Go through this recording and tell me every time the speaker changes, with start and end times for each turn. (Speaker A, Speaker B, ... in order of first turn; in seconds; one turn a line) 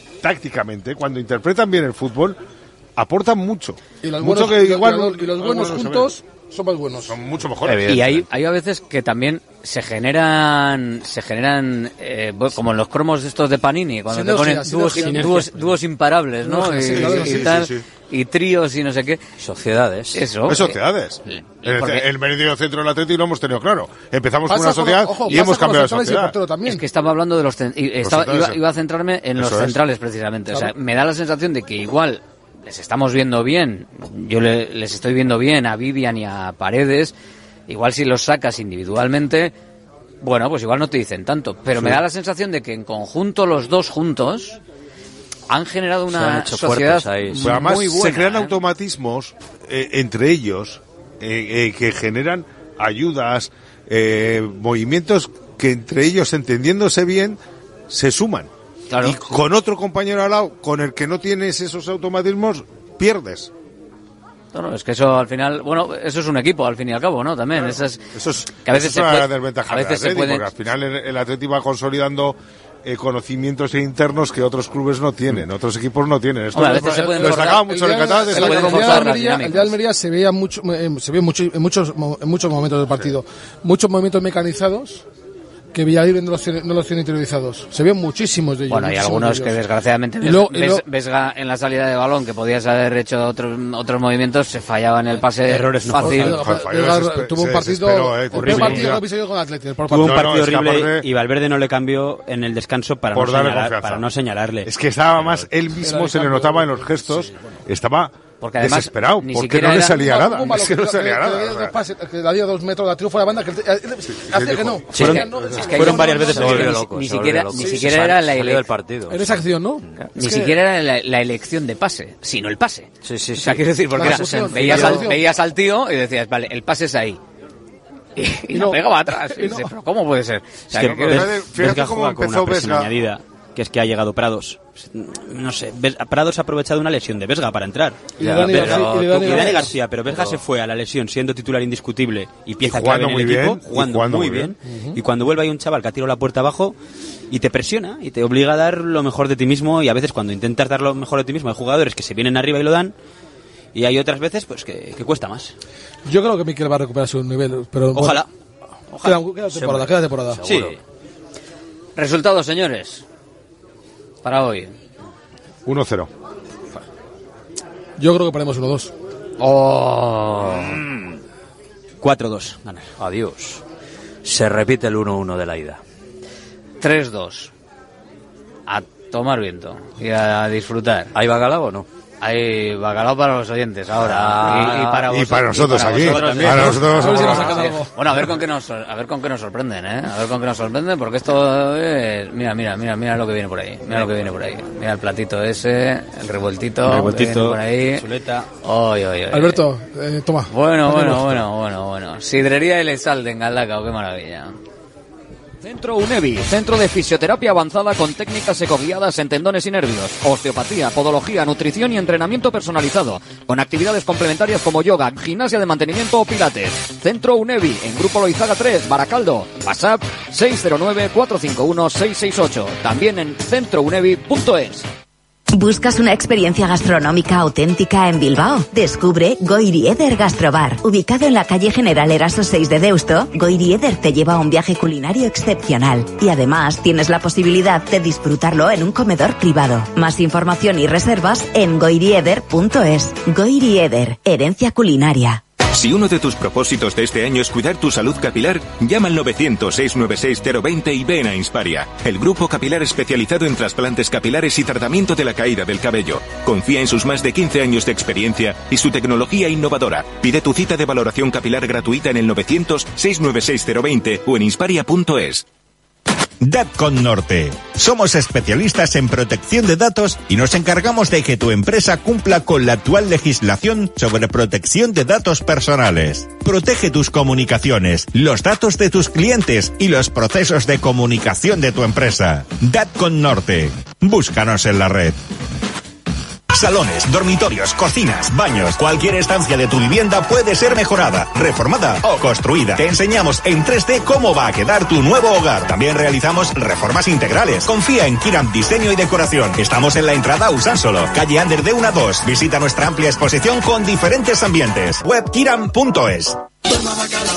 Speaker A: 0.2-2.4
Speaker A: 3.0-6.2
Speaker B: 4.0-7.2
Speaker A: 7.0-8.0
Speaker C: 7.7-8.1
Speaker D: 7.8-19.2
Speaker B: 14.1-15.5
Speaker E: 15.0-15.7
Speaker B: 16.4-17.4
Speaker A: 16.9-17.8
Speaker C: 19.4-20.2
Speaker D: 20.1-22.1
Speaker A: 20.4-26.4
Speaker B: 24.5-26.8
Speaker D: 26.6-37.1
Speaker A: 28.0-28.6
Speaker A: 29.4-29.8
Speaker D: 37.7-39.5
Speaker D: 40.2-44.6
Speaker D: 45.5-48.6
Speaker C: 46.1-47.6
Speaker A: 47.4-57.4
Speaker A: 57.9-58.5
Speaker D: 58.9-59.3
Speaker A: 59.0-63.5
Speaker D: 64.5-68.0
Speaker A: 68.1-79.1
Speaker D: 68.6-70.5
Speaker D: 76.5-77.6
Speaker B: 76.5-85.0
Speaker D: 78.2-79.7
Speaker A: 82.9-83.2
Speaker B: 85.7-89.6
Speaker D: 88.7-96.3
Speaker B: 90.2-90.8
Speaker E: 95.5-96.3
Speaker B: 95.9-100.3
Speaker A: 96.1-99.0
Speaker E: 98.3-98.9
Speaker E: 99.9-105.5
Speaker A: 100.0-101.0
Speaker A: 103.1-104.1
Speaker A: 104.6-111.8
Speaker B: 105.8-107.5
Speaker D: 108.4-110.0
Speaker B: 109.9-116.6
Speaker A: 114.1-115.8
Speaker E: 115.0-116.8
Speaker D: 115.6-118.7
Speaker C: 116.2-119.4
Speaker B: 119.1-120.5
Speaker D: 120.1-127.2
Speaker C: 123.0-123.6
Speaker B: 123.9-125.2
Speaker E: 124.7-124.9
Speaker D: 128.2-131.3
Speaker B: 128.5-129.7
Speaker E: 130.7-146.8
Speaker A: 130.8-133.0
Speaker B: 138.2-139.8
Speaker C: 138.2-138.7
Speaker A: 142.6-144.5
Speaker B: 144.6-145.0
Speaker E: 147.3-152.9
Speaker E: 153.7-155.5
Speaker B: 156.1-158.2
Speaker E: 157.9-158.3
Speaker E: 158.9-159.2
Speaker B: 159.0-160.4
Speaker C: 159.6-160.8
Speaker E: 160.4-160.8
Speaker D: 161.9-163.0
Speaker D: 164.2-164.7
Speaker A: 165.7-166.1
Speaker B: 168.0-168.9
Speaker D: 169.4-170.8
Speaker C: 170.6-170.8
Speaker E: 172.0-172.9
Speaker C: 173.0-173.6
Speaker C: 174.2-175.8
Speaker D: 176.8-177.5
Speaker D: 178.7-181.1
Speaker C: 181.1-181.8
Speaker D: 182.2-198.1
Speaker C: 183.9-185.1
Speaker A: 185.0-187.6
Speaker C: 185.9-186.9
Speaker E: 186.2-186.8
Speaker B: 186.9-187.9
Speaker E: 196.8-198.5
Speaker D: 198.6-199.6
Speaker B: 199.3-201.3
Speaker D: 200.5-204.5
Speaker D: 205.6-224.9
Speaker F: 225.5-245.4
Speaker G: 245.7-265.4
Speaker H: 266.4-285.1
Speaker H: 286.5-306.4